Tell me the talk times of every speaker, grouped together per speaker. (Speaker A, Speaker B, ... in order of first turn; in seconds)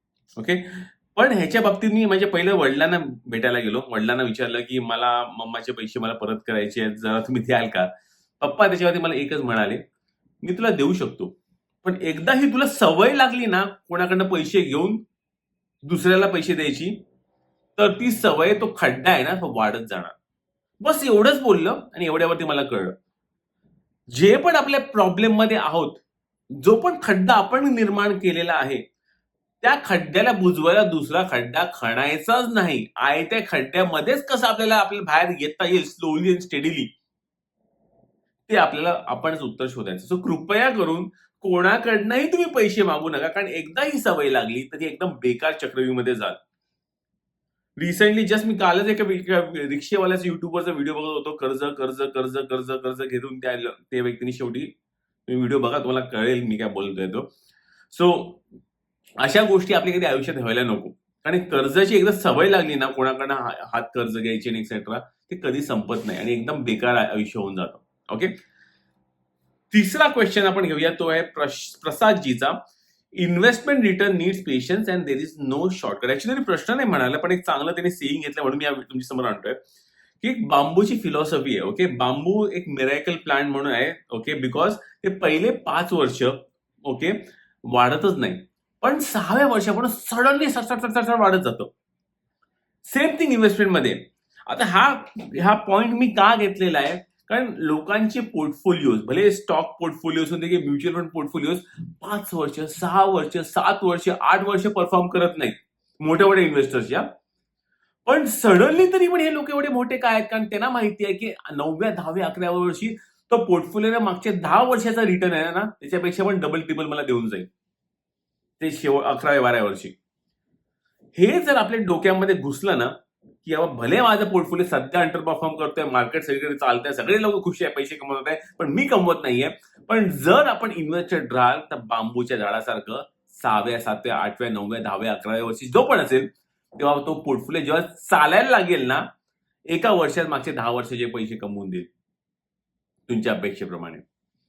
Speaker A: 0.3-7.9, 8.4-9.8, 10.4-11.3, 11.8-15.0, 15.8-16.9, 17.8-20.1, 20.8-22.9, 24.1-26.0, 26.6-28.8, 29.6-36.9, 38.5-46.4, 47.8-54.7, 55.3-57.3, 57.9-58.4, 59.2-68.3, 69.7-72.6, 73.2-79.6, 80.2-91.7, 92.8-107.1, 108.0-117.5, 118.6-119.9, 121.2-139.0, 139.7-141.9, 143.1-144.0